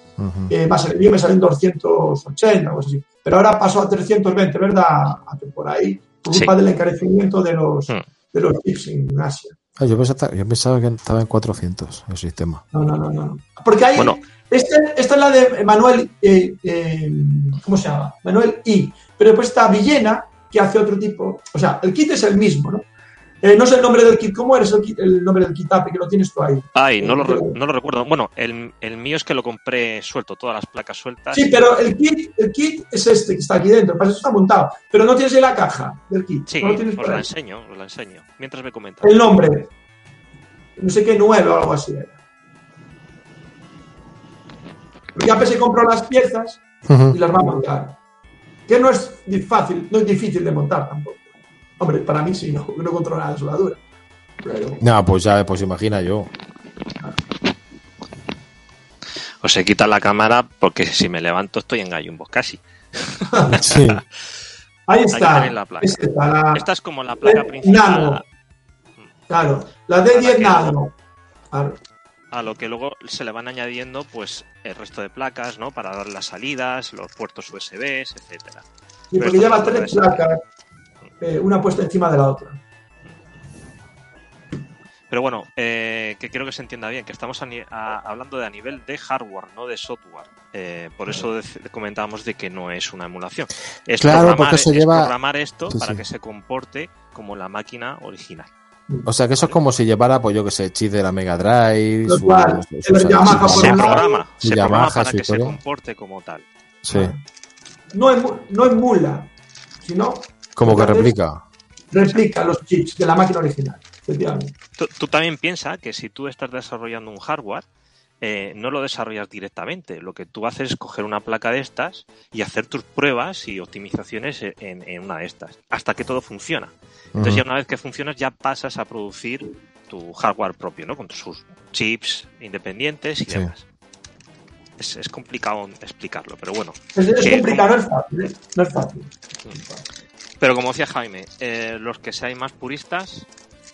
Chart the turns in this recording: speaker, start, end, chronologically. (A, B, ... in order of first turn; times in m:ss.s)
0:00.2-0:00.5 A
0:00.5-0:09.6 B
0:09.8-0:12.6 A
0:12.7-0:22.8 B
0:23.4-0:27.5 B
0:26.7-0:31.6 C
0:31.3-0:37.2 B
0:36.5-0:39.3 C
0:39.0-0:39.7 B
0:40.8-0:42.2 B
0:45.1-0:48.0 B
0:46.8-0:47.2 A
0:48.7-0:51.2 B
0:51.8-0:53.8 B
0:54.4-0:54.8 B
0:54.8-0:56.3 A
0:59.4-1:04.0 C
1:03.5-1:04.0 A
1:04.9-1:06.7 B
1:05.1-1:08.2 C
1:07.2-1:08.2 B
1:09.3-1:10.9 B
1:10.1-1:10.8 C
1:11.5-1:11.8 B
1:12.3-1:18.6 C
1:19.1-1:20.4 B
1:19.2-1:20.2 C
1:21.2-1:22.6 B
1:25.1-1:38.5 C
1:34.0-1:35.1 A
1:35.7-1:36.0 A
1:39.0-1:45.6 A
1:42.1-1:44.2 B
1:43.3-1:46.5 C
1:46.8-1:47.2 A
1:46.8-1:47.2 B
1:47.9-1:49.3 B
1:49.8-1:51.1 B
1:50.6-1:51.4 A
1:51.9-1:54.5 B
1:54.8-1:57.6 C
1:58.2-2:13.6 C
2:07.1-2:07.4 A
2:14.8-2:17.7 C
2:16.9-2:19.8 B
2:20.4-2:23.3 C